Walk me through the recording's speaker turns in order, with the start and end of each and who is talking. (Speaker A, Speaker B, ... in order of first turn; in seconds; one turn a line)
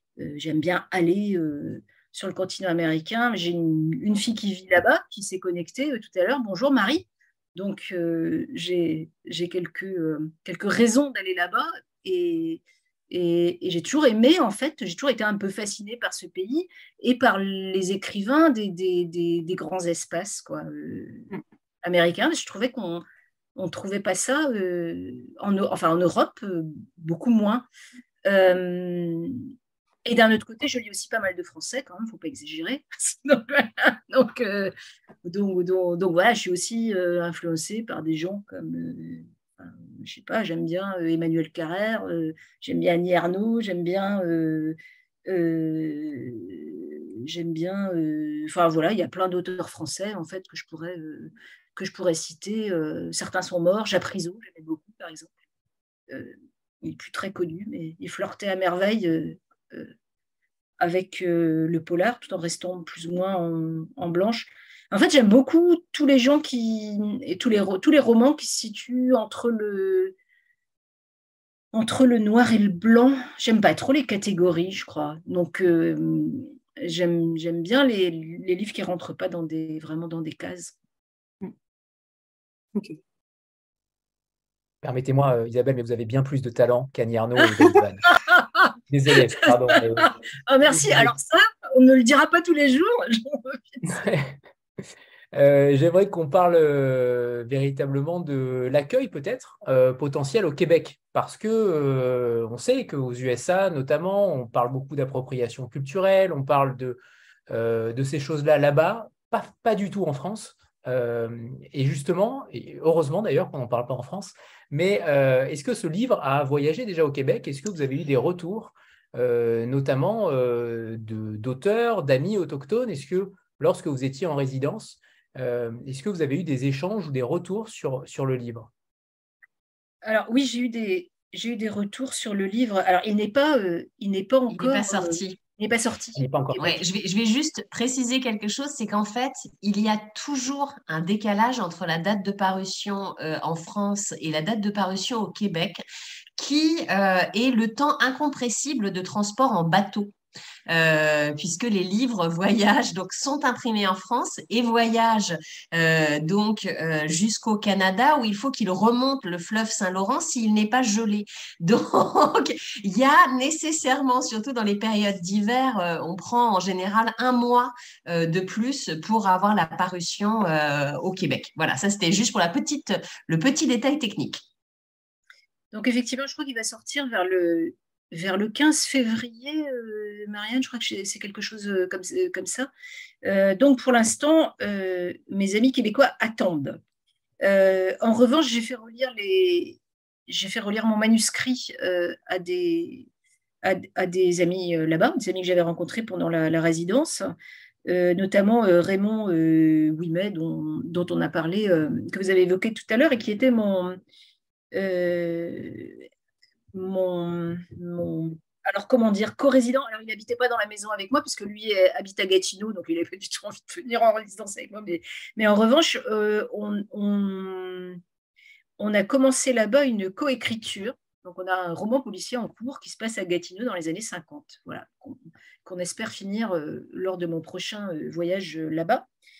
Speaker A: 0.2-21.3
Speaker A: 21.8-23.0
Speaker A: 23.6-27.6
Speaker A: 28.2-29.4
Speaker A: 30.1-34.7
Speaker A: 35.2-55.3
Speaker A: 56.1-59.9
Speaker A: 60.8-70.1
Speaker A: 71.7-80.7
Speaker B: 84.8-88.1
Speaker A: 88.0-88.7
Speaker B: 88.9-90.2
Speaker A: 89.4-94.0
Speaker B: 90.7-91.1
Speaker B: 94.0-94.3
Speaker B: 95.3-128.7
Speaker A: 130.0-136.8
Speaker C: 134.5-135.4
Speaker B: 136.2-136.6
Speaker C: 136.6-145.8
Speaker C: 146.4-150.1
Speaker C: 150.7-174.4
Speaker A: 175.7-182.7
Speaker A: 183.2-186.8
Speaker A: 187.4-193.1
Speaker A: 193.6-197.3
Speaker A: 197.9-204.0
Speaker A: 204.7-206.0
Speaker A: 206.7-218.0
Speaker A: 218.8-229.1